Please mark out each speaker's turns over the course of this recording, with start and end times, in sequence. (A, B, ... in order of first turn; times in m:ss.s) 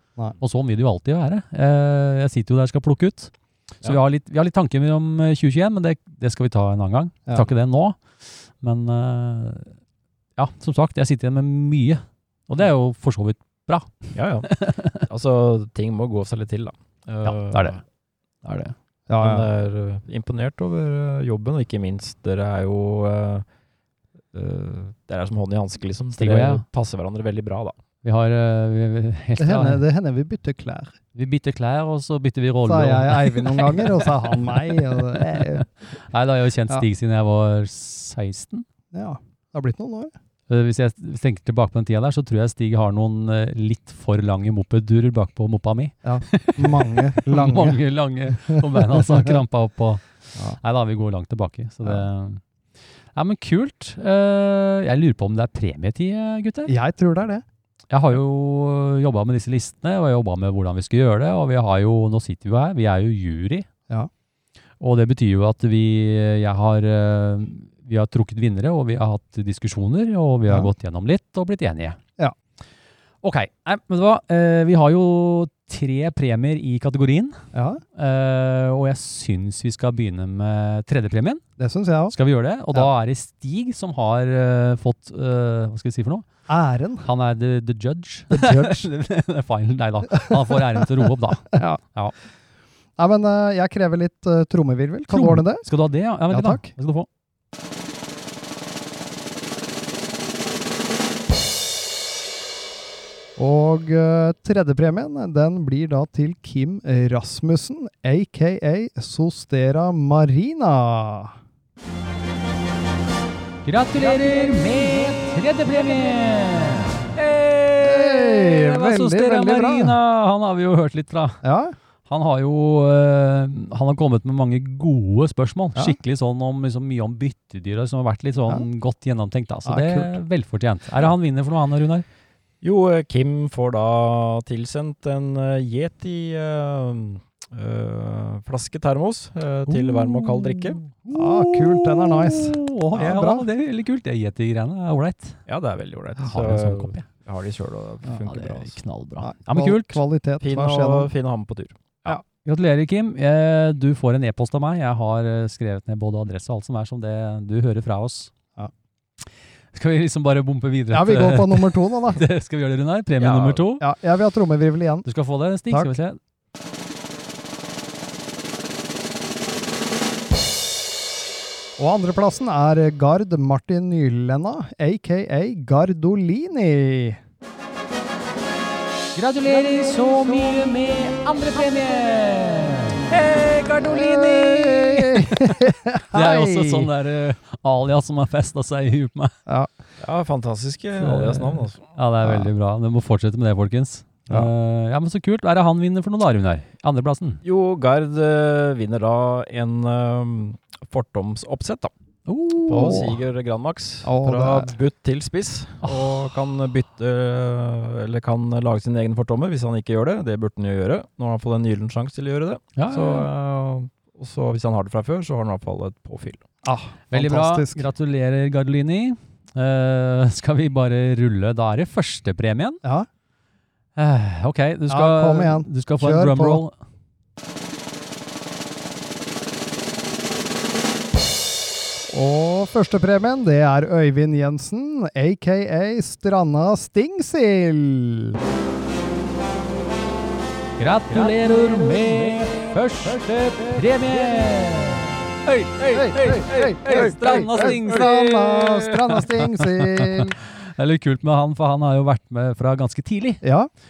0:00.4-0:09.7 A
0:10.4-0:15.0 A
0:14.1-0:17.8 B
0:17.2-0:17.8 A
0:18.4-0:18.7 A
0:19.1-0:19.5 C
0:19.2-0:23.4 B
0:24.3-0:27.7 B
0:26.2-0:26.6 A
0:28.0-0:29.8 A
0:29.4-0:31.0 C
0:31.1-0:38.7 A
0:32.6-0:35.6 C
0:38.9-0:40.1 C
0:40.5-0:52.4 A
0:46.0-0:47.8 C
0:48.4-0:49.4 C
0:53.1-0:56.7 A
0:56.6-0:57.4 C
0:57.9-1:03.7 A
1:04.8-1:12.0 A
1:13.2-1:17.4 A
1:17.5-1:17.8 C
1:18.0-1:21.4 A
1:21.6-1:22.1 C
1:22.1-1:26.3 A
1:26.5-1:27.0 C
1:27.0-1:32.1 A
1:28.3-1:28.8 C
1:30.2-1:30.5 C
1:31.5-1:31.8 C
1:33.0-1:35.6 C
1:35.1-1:37.1 A
1:36.3-1:36.7 C
1:43.4-1:51.4 C
1:53.6-2:01.4 A
1:57.8-2:00.0 C
2:01.4-2:01.7 C
2:02.0-2:12.0 A
2:09.6-2:10.2 C
2:12.6-2:20.8 B
2:19.7-2:25.4 A
2:21.1-2:23.4 C
2:25.5-2:28.8 B
2:26.2-2:27.0 A
2:28.2-2:30.0 A
2:29.2-2:31.1 C
2:30.4-2:32.2 B
2:32.4-2:38.3 A
2:39.7-2:43.8 A
2:40.9-2:42.2 C
2:43.2-2:43.6 B
2:43.8-2:45.1 C
2:45.0-2:46.2 A
2:51.8-2:57.2 C
2:59.1-3:09.3 A
3:03.8-3:06.9 C
3:10.0-3:11.8 B
3:11.0-3:17.4 A
3:12.2-3:12.5 C
3:17.4-3:21.9 B
3:22.3-3:23.2 A
3:22.7-3:36.4 B
3:24.0-3:24.7 C
3:25.8-3:26.1 A
3:32.8-3:33.3 A
3:36.6-3:37.8 C
3:37.1-3:42.8 A
3:44.0-3:46.7 A
3:44.9-3:46.6 C
3:52.1-3:58.4 C
4:00.8-4:13.4 A
4:05.9-4:10.4 C
4:13.4-4:13.7 C